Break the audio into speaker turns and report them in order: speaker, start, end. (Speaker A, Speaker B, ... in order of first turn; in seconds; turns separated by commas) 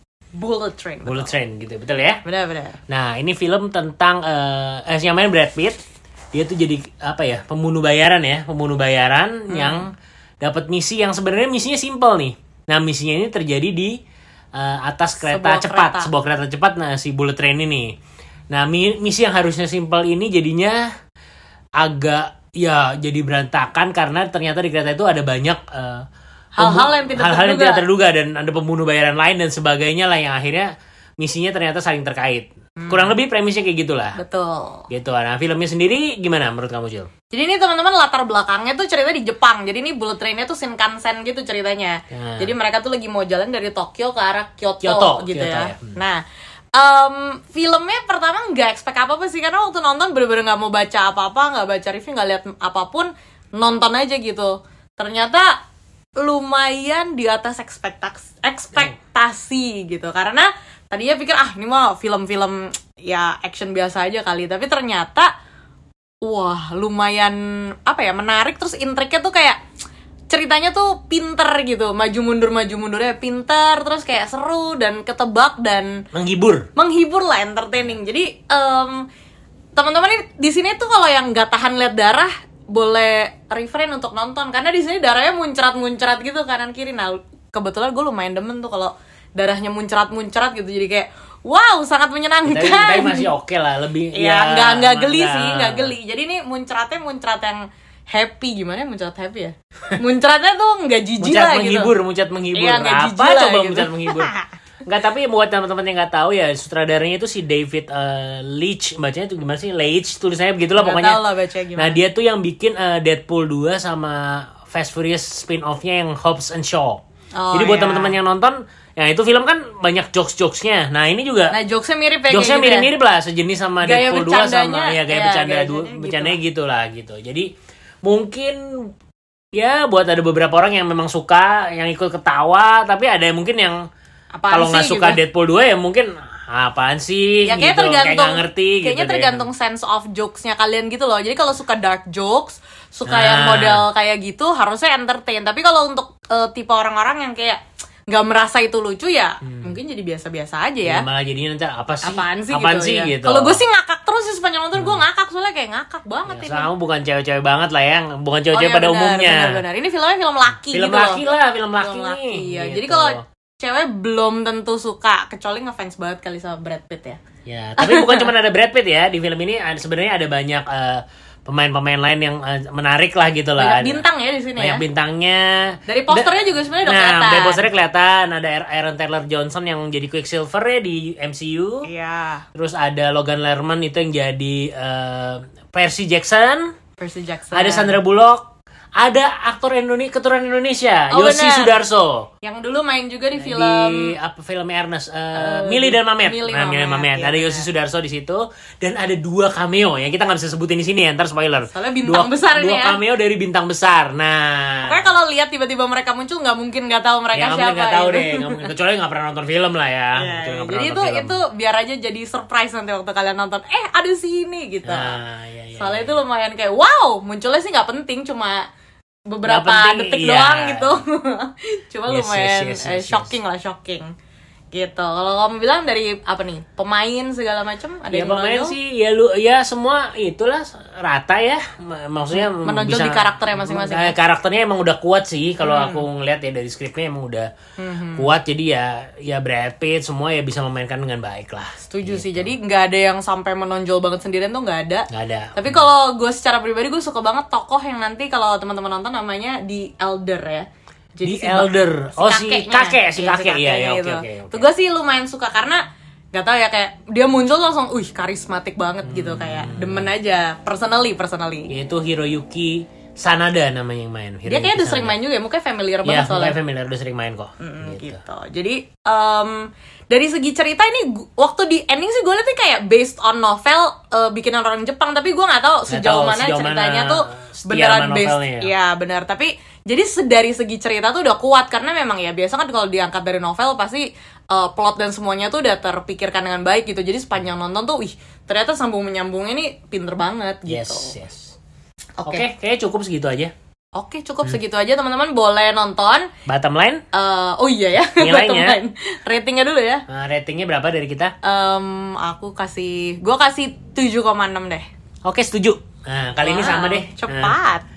Speaker A: 0.3-1.3, Speaker B: 1.1-2.2, Speaker A: 2.2-2.8, Speaker B: 2.9-5.8, Speaker B: 6.3-9.9, Speaker A: 9.5-9.9, Speaker B: 10.4-13.9, Speaker B: 14.5-17.9, Speaker A: 15.2-16.1, Speaker B: 18.5-20.9, Speaker B: 21.8-26.1, Speaker A: 26.5-27.8, Speaker B: 26.6-34.2, Speaker A: 32.8-33.1, Speaker A: 34.2-34.9, Speaker B: 34.9-37.1, Speaker A: 37.3-46.2, Speaker B: 42.1-42.5, Speaker B: 44.8-46.0, Speaker A: 46.8-55.5, Speaker A: 56.2-65.3, Speaker A: 66.2-69.6, Speaker A: 70.3-76.0, Speaker B: 76.1-76.7, Speaker A: 76.8-79.0, Speaker A: 79.8-93.3, Speaker B: 92.5-96.0, Speaker A: 94.1-102.0, Speaker B: 101.2-104.3, Speaker A: 102.5-104.5, Speaker B: 104.9-111.2, Speaker A: 110.8-112.0, Speaker B: 111.8-121.5, Speaker A: 117.3-118.2, Speaker A: 121.5-122.9, Speaker B: 122.3-127.5, Speaker A: 123.8-126.4, Speaker B: 128.0-128.9, Speaker B: 129.5-133.8, Speaker A: 134.3-135.2, Speaker B: 134.5-139.5, Speaker A: 137.4-151.0, Speaker B: 143.1-143.8, Speaker B: 149.4-149.8, Speaker B: 150.8-153.6, Speaker A: 152.0-156.7, Speaker B: 154.8-155.0, Speaker B: 156.3-159.6, Speaker A: 158.5-167.2, Speaker B: 160.7-163.2, Speaker B: 167.4-174.0, Speaker A: 167.8-168.3, Speaker A: 173.6-174.8, Speaker B: 174.6-181.9, Speaker A: 175.9-177.7, Speaker A: 181.8-182.4, Speaker B: 182.5-186.7, Speaker A: 187.0-188.0, Speaker B: 187.5-192.3, Speaker A: 191.1-191.8, Speaker A: 192.4-194.1, Speaker B: 193.3-205.1, Speaker A: 195.3-197.7, Speaker A: 201.7-203.0, Speaker A: 204.8-208.7, Speaker B: 207.3-211.4, Speaker A: 210.1-215.2, Speaker B: 214.8-216.2, Speaker A: 215.8-218.7, Speaker A: 219.3-224.1, Speaker B: 219.4-221.0, Speaker B: 222.1-223.3, Speaker A: 224.7-228.8, Speaker B: 228.1-237.5, Speaker A: 232.3-234.2, Speaker A: 235.6-236.0, Speaker A: 237.8-238.3, Speaker B: 238.2-242.5, Speaker A: 241.8-255.8, Speaker B: 245.1-245.8, Speaker B: 251.2-254.7, Speaker A: 256.3-261.7, Speaker B: 259.1-260.1, Speaker B: 261.7-265.1, Speaker A: 264.5-266.6, Speaker B: 266.1-268.2, Speaker A: 267.6-291.1, Speaker B: 275.9-278.7, Speaker B: 290.7-291.6, Speaker A: 292.2-292.4, Speaker B: 292.2-293.5, Speaker A: 293.9-296.3, Speaker B: 296.4-297.0, Speaker A: 297.1-300.0, Speaker B: 298.1-298.8, Speaker B: 300.1-301.3, Speaker A: 301.4-304.9, Speaker B: 305.2-307.6, Speaker A: 306.4-307.8